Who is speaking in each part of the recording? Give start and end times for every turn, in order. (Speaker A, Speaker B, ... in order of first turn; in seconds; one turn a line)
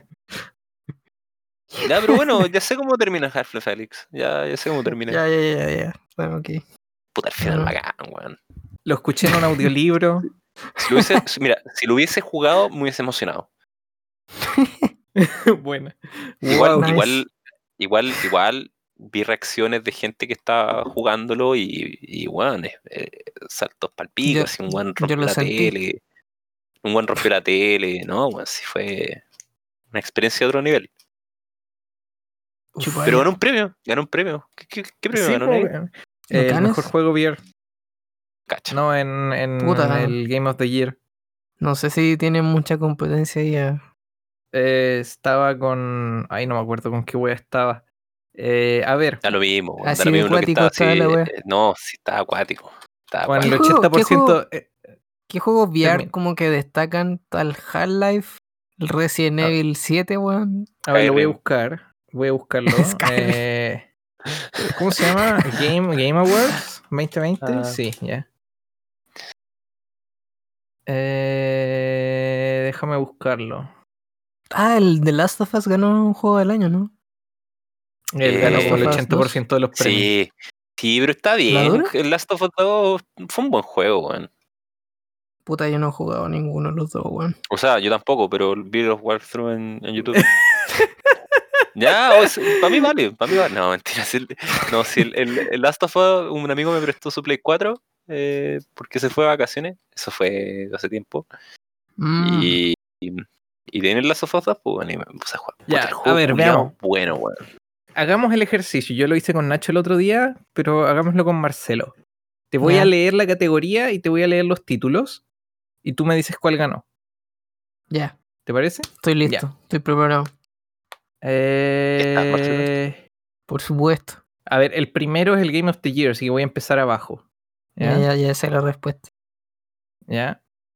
Speaker A: 1.7-2.4
Speaker B: 1.8-5.2
Speaker A: 5.1-6.6
Speaker B: 7.1-8.3
Speaker A: 7.4-7.7
Speaker C: 8.8-10.2
Speaker A: 10.8-11.1
Speaker B: 10.8-13.5
Speaker A: 14.6-14.9
Speaker C: 15.1-17.0
Speaker B: 16.4-26.0
Speaker A: 16.8-17.2
Speaker A: 24.2-25.7
Speaker B: 26.8-29.2
Speaker B: 29.9-30.9
Speaker A: 32.8-33.2
Speaker B: 33.0-35.7
Speaker C: 35.1-37.4
Speaker A: 36.3-36.9
Speaker B: 38.5-38.8
Speaker C: 38.7-41.0
Speaker A: 39.6-40.2
Speaker A: 41.6-43.9
Speaker C: 44.5-49.2
Speaker B: 49.2-53.6
Speaker A: 49.8-51.3
Speaker C: 53.3-54.8
Speaker A: 53.4-54.4
Speaker A: 55.3-60.7
Speaker C: 55.8-56.1
Speaker C: 60.8-63.9
Speaker B: 60.9-61.4
Speaker A: 62.7-63.4
Speaker C: 64.7-68.2
Speaker B: 67.4-67.8
Speaker C: 70.9-73.7
Speaker A: 74.5-76.9
Speaker C: 78.1-80.1
Speaker B: 78.2-79.0
Speaker A: 78.4-79.4
Speaker B: 79.7-84.3
Speaker A: 81.5-81.9
Speaker A: 85.5-87.4
Speaker B: 87.5-90.3
Speaker C: 90.1-91.6
Speaker B: 91.7-101.2
Speaker C: 92.2-92.5
Speaker A: 102.0-102.6
Speaker B: 102.2-107.5
Speaker C: 105.7-106.7
Speaker C: 107.9-112.0
Speaker C: 112.5-115.2
Speaker A: 112.6-112.9
Speaker C: 115.8-116.8
Speaker A: 117.9-118.2
Speaker C: 118.5-119.5
Speaker A: 118.9-120.3
Speaker C: 121.2-123.0
Speaker B: 122.0-122.7
Speaker A: 123.5-124.2
Speaker C: 124.5-127.2
Speaker C: 127.8-128.1
Speaker A: 127.8-129.1
Speaker C: 130.1-130.4